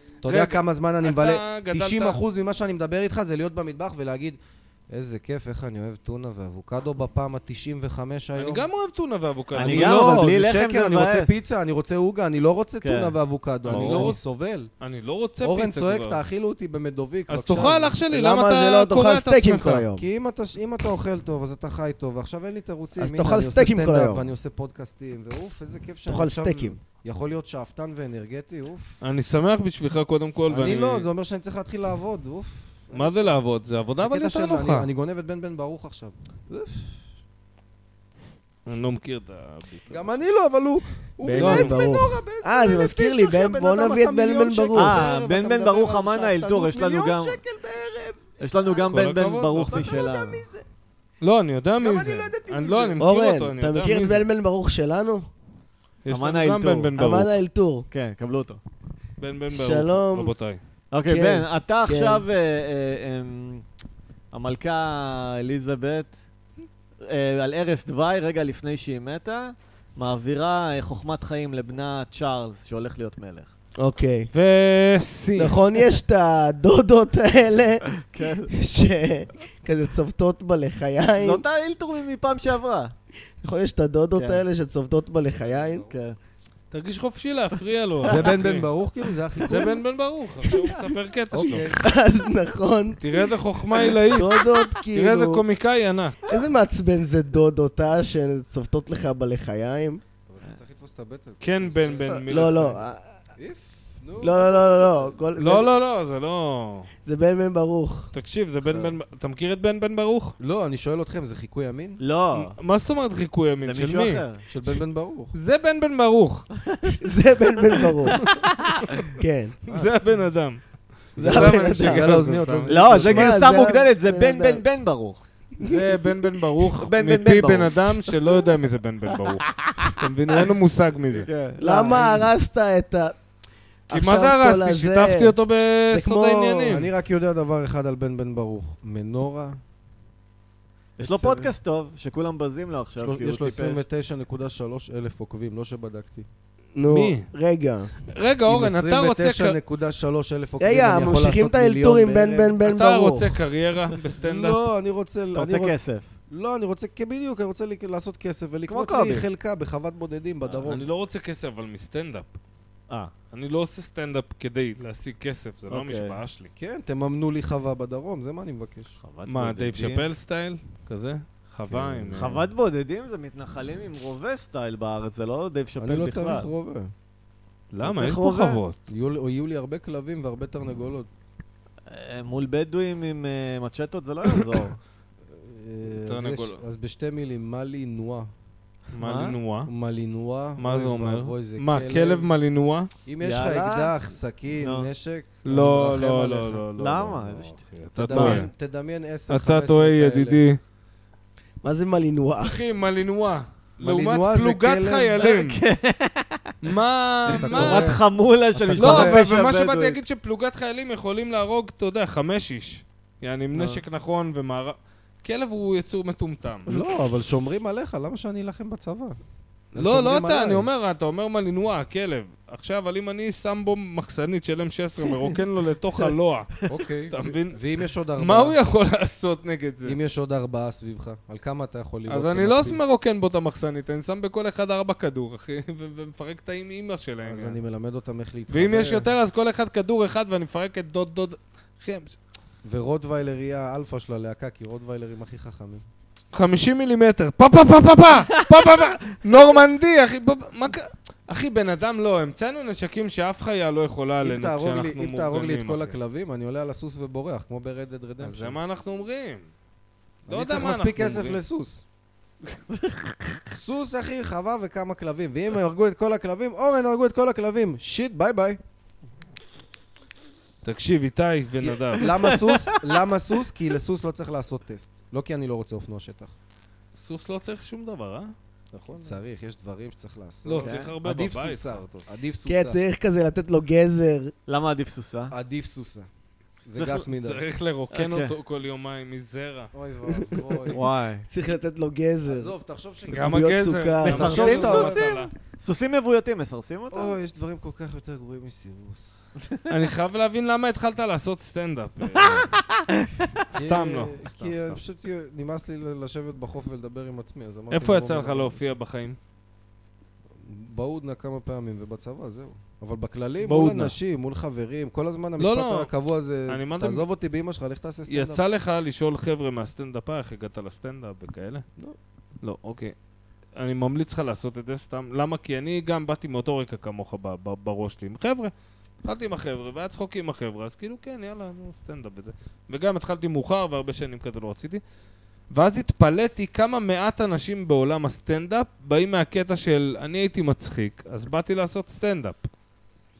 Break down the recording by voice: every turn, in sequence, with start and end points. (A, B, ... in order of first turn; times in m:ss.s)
0:00.2-0:04.4 A
0:00.2-0:02.2 B
0:04.9-0:08.7 A
0:08.4-0:10.2 B
0:09.5-0:11.4 C
0:09.6-0:14.7 A
0:12.8-0:13.2 C
0:13.7-0:14.2 B
0:13.7-0:14.1 C
0:14.8-0:16.2 B
0:15.4-0:18.0 A
0:17.3-0:19.9 B
0:18.1-0:20.1 D
0:20.0-0:28.9 A
0:23.0-0:24.2 D
0:26.1-0:26.8 D
0:29.0-0:31.1 B
0:30.5-0:33.3 A
0:32.9-0:34.9 B
0:34.0-0:37.0 A
0:38.7-0:40.1 B
0:39.9-0:49.0 A
0:41.2-0:45.1 D
0:41.3-0:41.8 B
0:44.7-0:47.4 C
0:48.4-0:50.4 C
0:48.8-0:49.8 B
0:49.6-0:50.6 A
0:51.2-0:54.3 B
0:51.8-0:53.0 A
0:53.0-0:55.3 D
0:56.0-0:57.3 B
0:56.1-0:56.9 C
0:57.0-0:57.9 D
0:57.9-0:58.6 C
0:59.2-1:00.6 B
0:59.5-1:00.3 D
1:00.9-1:03.6 C
1:01.1-1:02.2 D
1:04.3-1:06.2 C
1:07.1-1:13.5 C
1:13.8-1:14.3 D
1:14.3-1:15.6 B
1:15.4-1:17.9 D
1:18.0-1:18.5 C
1:18.5-1:21.4 D
1:21.2-1:22.9 C
1:23.4-1:25.9 D
1:24.2-1:24.4 C
1:25.3-1:26.0 A
1:25.9-1:26.2 C
1:26.7-1:28.7 B
1:28.0-1:29.8 A
1:28.0-1:28.3 C
1:29.4-1:31.8 B
1:30.4-1:30.9 D
1:31.3-1:31.9 A
1:31.8-1:33.2 D
1:33.0-1:36.2 B
1:34.0-1:35.4 D
1:36.3-1:40.0 D
1:40.3-1:42.2 A
1:41.4-1:42.8 B
1:42.3-1:43.1 D
1:43.4-1:45.2 A
1:44.2-1:45.7 D
1:45.4-1:46.9 B
1:47.1-1:48.1 D
1:48.1-1:50.4 B
1:48.6-1:48.9 C
1:50.4-1:52.0 A
1:52.0-1:52.6 C
1:52.3-1:54.2 B
1:53.6-1:54.4 C
1:54.5-1:55.3 A
1:55.3-1:56.4 B
1:56.7-1:57.0 C
1:57.0-1:58.2 D
1:58.0-1:59.0 C
1:59.2-1:59.6 D
1:59.7-2:00.6 B
2:01.1-2:02.7 B
2:01.2-2:02.2 D
2:01.2-2:03.4 A
2:02.7-2:05.2 C
2:02.9-2:04.6 D
2:05.6-2:06.0 D
2:05.6-2:11.3 B
2:06.8-2:08.4 C
2:09.2-2:10.0 C
2:11.1-2:12.3 C
2:11.6-2:13.2 D
2:13.9-2:15.4 D
2:13.9-2:16.9 B
2:15.9-2:16.7 D
2:16.6-2:19.6 A
2:21.0-2:23.8 C
2:21.0-2:21.5 A
2:23.0-2:26.3 A
2:26.7-2:27.9 D
2:26.9-2:27.3 B
2:28.1-2:29.6 B
2:28.4-2:32.6 A
2:30.6-2:33.4 D
2:32.6-2:34.7 B
2:34.2-2:35.8 A
2:35.3-2:36.1 C
2:36.3-2:40.9 A
2:38.7-2:39.3 C
2:40.5-2:40.8 C
2:40.7-2:42.3 B
2:43.3-2:46.5 B
2:45.7-2:46.2 C
2:46.6-2:49.0 A
2:49.0-2:50.1 C
2:49.3-2:52.5 B
2:51.7-2:52.4 A
2:52.1-2:56.5 C
2:55.8-2:56.9 A
2:57.7-2:58.8 B
2:57.8-2:58.6 C
2:58.9-3:01.1 A
3:01.9-3:04.8 C
3:05.3-3:08.3 A
3:05.9-3:06.6 B
3:09.0-3:09.7 B
3:09.0-3:09.4 C
3:09.7-3:12.3 A
3:10.6-3:12.9 B
3:13.1-3:16.7 A
3:13.2-3:13.9 C
3:14.6-3:14.9 C
3:15.4-3:18.5 B
3:16.8-3:17.6 C
3:18.0-3:20.4 A
3:18.1-3:18.4 C
3:19.3-3:20.6 B
3:21.6-3:22.6 D
3:22.4-3:25.6 B
3:23.8-3:25.2 A
3:25.2-3:26.5 C
3:26.6-3:28.0 B
3:27.3-3:29.2 A
3:27.3-3:30.0 C
3:28.7-3:36.8 B
3:33.5-3:33.8 C
3:36.7-3:39.2 A
3:39.7-3:40.7 A
3:39.7-3:47.6 B
3:45.0-3:45.4 C
3:46.7-3:48.6 A
3:48.2-3:50.0 B
3:49.8-3:52.8 A
3:52.1-3:57.6 B
3:57.2-3:59.1 A
3:58.5-4:02.2 B
4:02.6-4:05.8 A
4:06.3-4:15.9 B
4:14.2-4:18.6 A
4:18.2-4:19.4 B
4:20.3-4:21.4 B
4:20.3-4:21.8 A
4:22.7-4:23.1 C
4:23.5-4:28.6 A
4:30.6-4:32.4 B
4:31.9-4:36.3 A
4:32.0-4:32.8 C
4:37.0-4:39.2 B
4:39.0-4:42.8 A
4:40.4-4:42.0 B
4:40.6-4:40.9 C
4:42.4-4:44.3 D
4:44.4-4:45.4 C
4:45.3-4:46.1 A
4:46.6-4:47.4 A
4:46.8-4:47.1 C
4:47.1-4:49.7 B
4:47.9-4:48.3 C
4:49.7-4:50.8 A
4:50.1-4:50.4 D
4:50.7-4:51.3 C
4:51.3-4:52.5 D
4:52.3-4:53.4 A
4:53.1-4:55.3 B
4:53.2-4:54.5 D
4:54.0-4:55.2 A
4:54.0-4:57.1 C
4:56.9-4:59.2 A
4:59.7-5:02.5 B
5:02.2-5:03.3 C
5:03.5-5:04.8 B
5:03.6-5:08.7 A
5:07.7-5:09.2 B
5:10.4-5:18.4 A
5:13.4-5:14.0 B
5:15.4-5:15.9 B
5:16.5-5:17.0 B
5:18.1-5:21.6 B
5:22.4-5:22.9 B
5:23.6-5:28.5 B
5:29.0-5:34.8 B
5:35.5-5:42.5 B